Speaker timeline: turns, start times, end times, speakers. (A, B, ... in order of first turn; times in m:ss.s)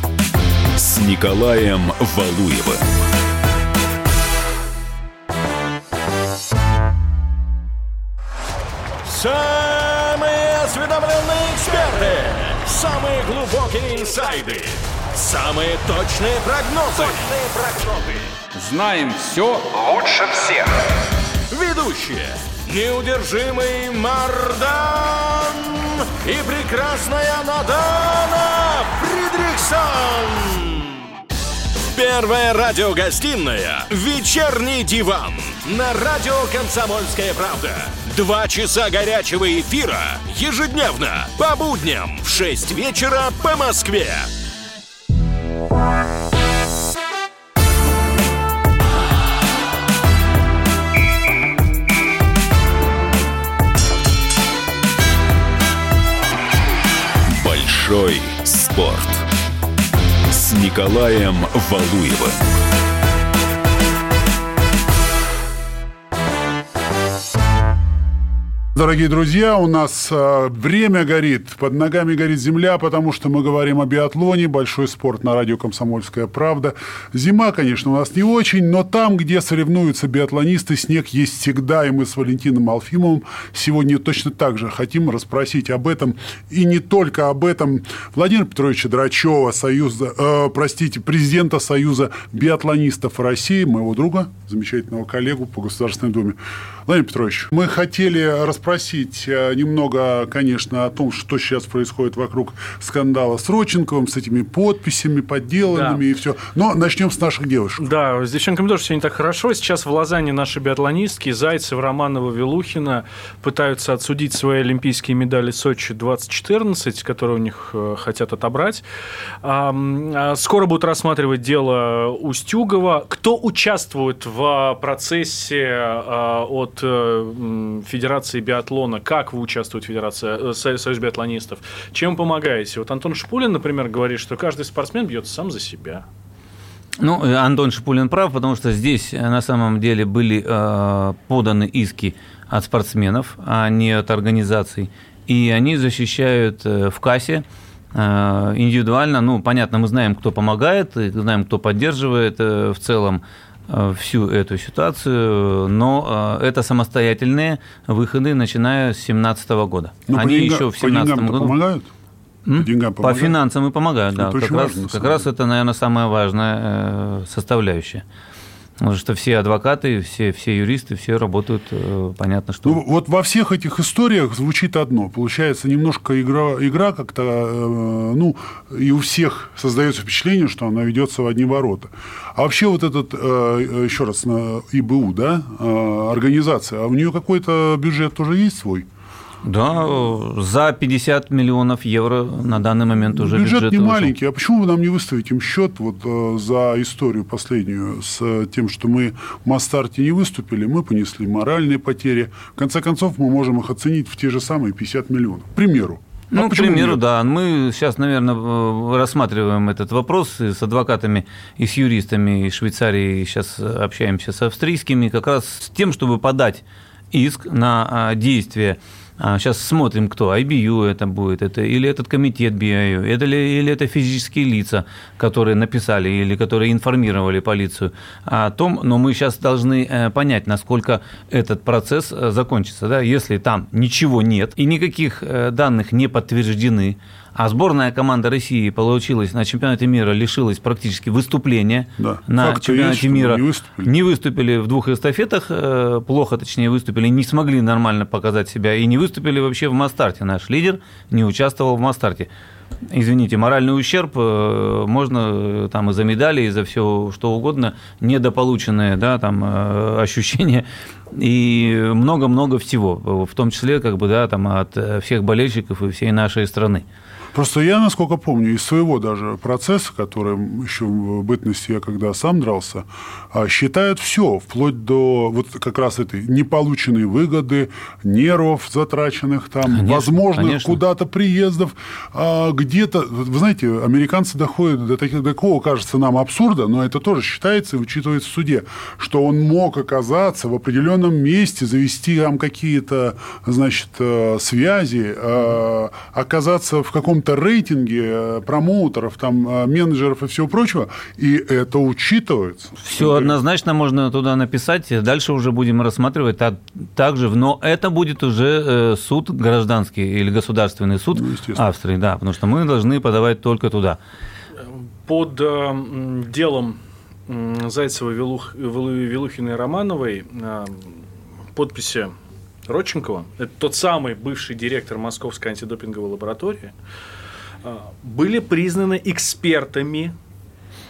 0:00.8-0:02.9 A
0:09.0-0:18.3 B
0:18.5-0:20.6 C
0:21.5-0:30.9 B
0:31.9-0:44.3 B
0:57.2-0:59.2 A
1:00.3-1:02.6 A
1:08.7-1:47.8 D
1:45.7-1:46.0 E
1:47.8-1:58.8 E
1:59.4-2:16.0 E
2:17.0-2:27.4 F
2:27.9-2:41.5 F
2:40.1-2:41.9 D
2:42.4-2:48.0 F
2:42.5-2:43.4 D
2:44.1-2:45.3 D
2:48.8-2:52.8 F
2:52.6-3:08.8 D
3:09.4-3:14.1 F
3:13.1-3:27.0 D
3:26.3-4:12.3 F
4:02.0-4:03.9 D
4:12.9-4:26.8 F
4:27.3-5:03.4 D
4:39.6-4:40.8 F
5:02.8-5:14.0 F
5:11.1-5:11.6 D
5:14.6-5:16.8 E
5:17.3-5:21.0 E
5:21.5-5:22.1 E
5:22.7-5:26.7 E
5:27.6-5:30.1 E